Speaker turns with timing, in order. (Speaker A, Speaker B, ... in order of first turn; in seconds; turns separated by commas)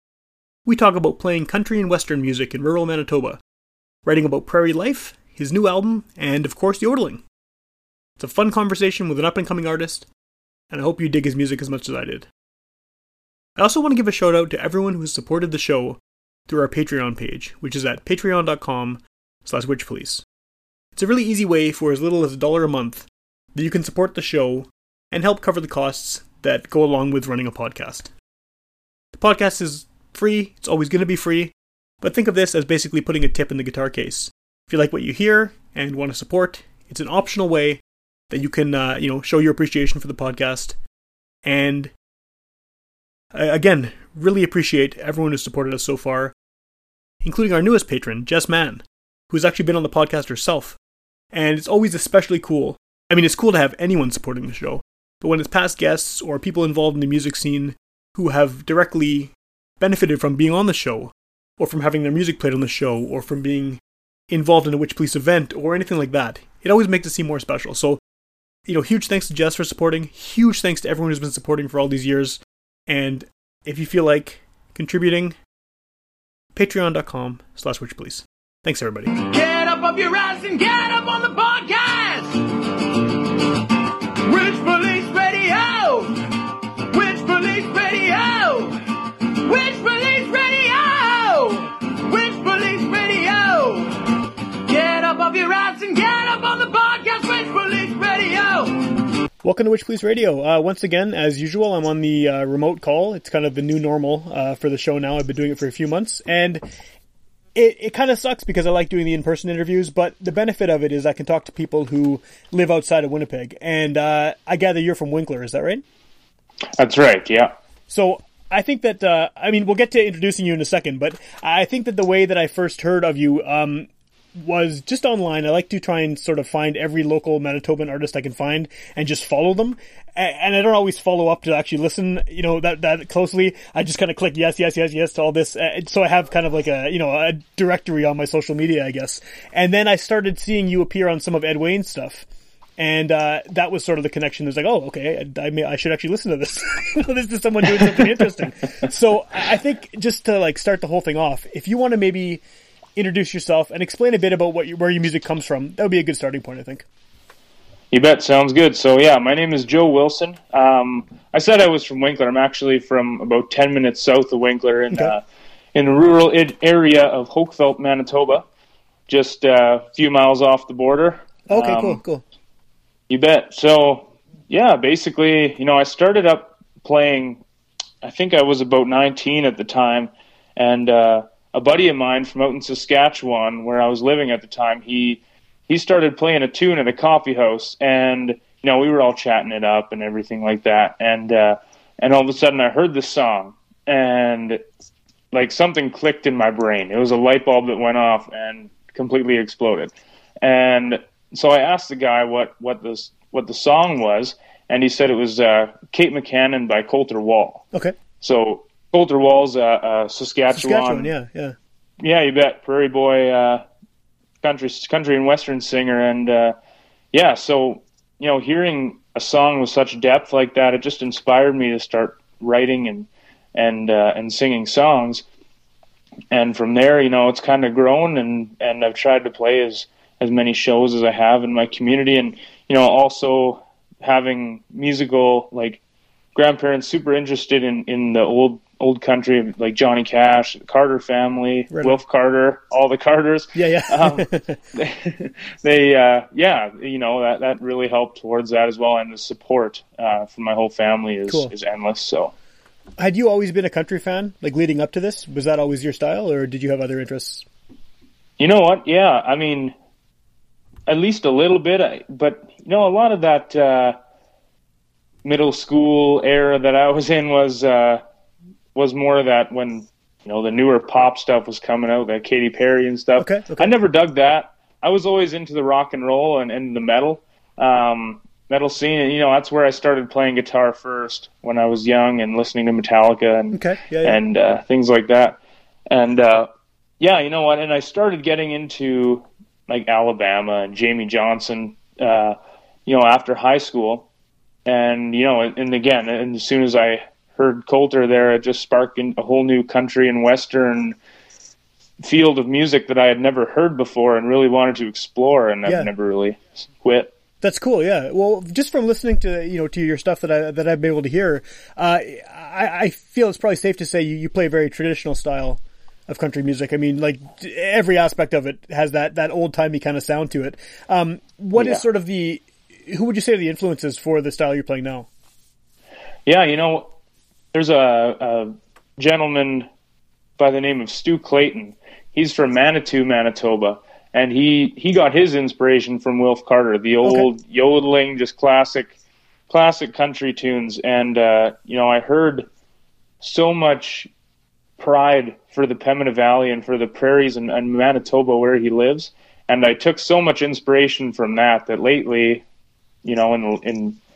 Speaker A: 0.7-3.4, Speaker A: 4.0-7.2, Speaker A: 8.2-10.1, Speaker A: 10.7-12.3, Speaker A: 13.6-20.2, Speaker A: 20.9-28.1, Speaker A: 29.1-40.8, Speaker A: 41.5-41.9, Speaker A: 43.3-46.3, Speaker A: 47.2-50.8, Speaker A: 51.3-68.0, Speaker A: 68.7-75.3, Speaker A: 76.5-79.2, Speaker B: 79.2-83.1, Speaker B: 84.2-86.4, Speaker B: 86.9-98.9, Speaker A: 99.4-106.6, Speaker A: 107.5-115.8, Speaker C: 116.8-117.5, Speaker A: 117.9-142.2, Speaker A: 142.8-152.4, Speaker A: 152.9-156.8, Speaker C: 157.9-165.2, Speaker C: 165.7-168.4, Speaker C: 169.1-172.0, Speaker A: 171.5-172.2, Speaker C: 173.1-177.4, Speaker C: 178.0-194.6, Speaker C: 195.3-207.6, Speaker C: 208.2-211.1, Speaker A: 210.5-211.6, Speaker C: 212.0-213.6, Speaker C: 214.4-216.5, Speaker C: 217.1-225.2, Speaker C: 226.3-235.8, Speaker C: 236.3-252.3, Speaker A: 241.7-242.0, Speaker A: 243.5-244.6, Speaker A: 251.3-251.5, Speaker A: 253.0-257.4, Speaker C: 258.4-259.7, Speaker C: 260.9-264.0, Speaker C: 265.2-268.0, Speaker C: 268.8-285.4, Speaker A: 273.2-273.7, Speaker A: 283.5-284.2, Speaker C: 285.9-286.5, Speaker C: 287.0-294.1, Speaker C: 294.7-301.0, Speaker C: 302.0-307.1, Speaker A: 307.4-325.1, Speaker C: 321.6-321.8, Speaker C: 326.2-326.9, Speaker C: 327.5-329.7, Speaker C: 330.4-338.9, Speaker C: 339.5-342.5, Speaker C: 343.2-344.1, Speaker C: 344.8-352.4, Speaker C: 353.0-354.0